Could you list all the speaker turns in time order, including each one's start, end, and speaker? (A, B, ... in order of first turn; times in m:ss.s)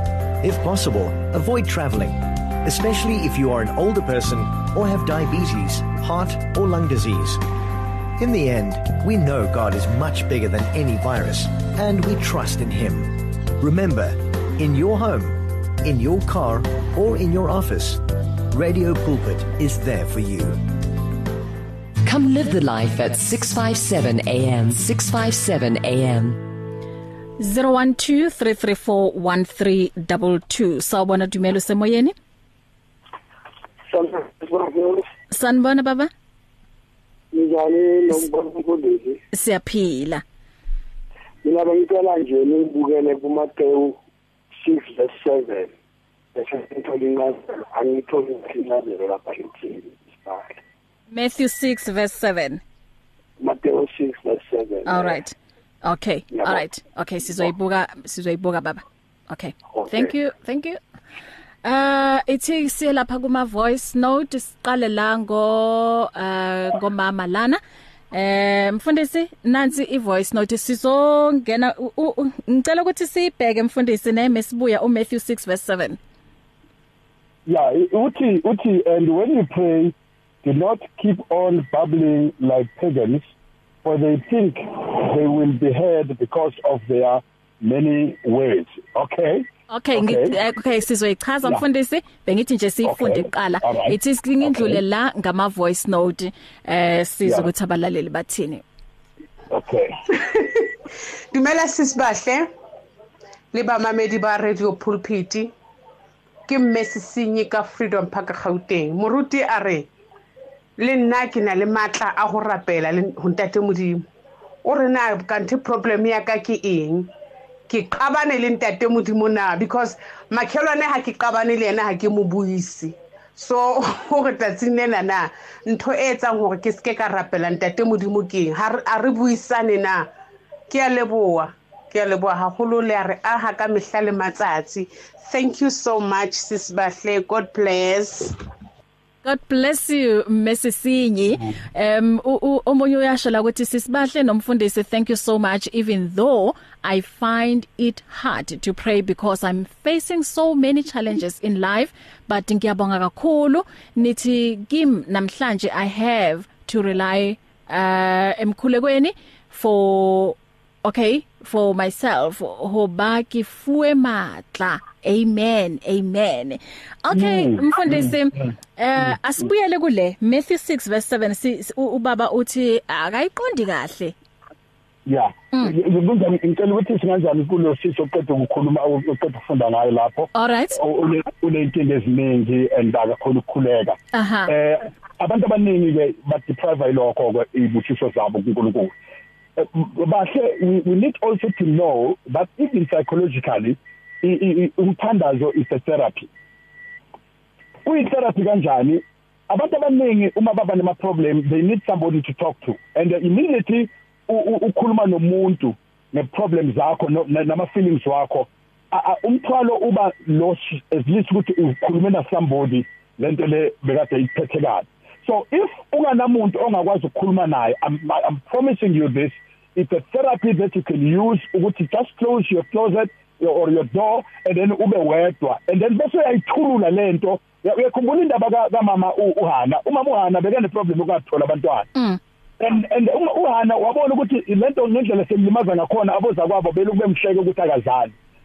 0:00.4-0:07.4 A
0:08.2-0:20.6 A
0:22.0-0:26.4 B
0:27.4-0:32.1 C
0:33.9-0:35.0 D
0:35.3-0:36.1 C
0:37.3-0:39.2 D
0:39.3-0:40.2 C
0:41.4-0:44.0 D
0:44.6-0:45.7 D
0:46.3-0:50.6 D
0:51.1-0:52.6 C
0:53.4-0:55.2 D
0:54.8-1:00.8 C
0:56.3-0:56.6 D
0:59.7-1:00.1 D
1:01.6-1:07.6 C
1:08.1-1:16.0 C
1:17.4-1:23.3 E
1:23.8-1:30.3 E
1:29.7-1:38.6 C
1:32.8-1:34.8 E
1:39.5-1:40.0 E
1:40.2-1:40.6 F
1:41.3-1:42.5 F
1:43.5-1:45.5 F
1:46.5-1:49.8 F
1:50.8-1:54.0 F
1:54.6-1:57.1 F
1:57.7-2:10.1 F
2:10.7-2:18.4 F
2:19.2-2:54.1 C
2:47.1-2:48.1 E
2:55.0-3:08.9 E
3:00.3-3:00.8 C
3:04.1-3:04.5 C
3:09.6-3:16.3 E
3:17.8-3:51.9 E
3:52.6-3:58.1 E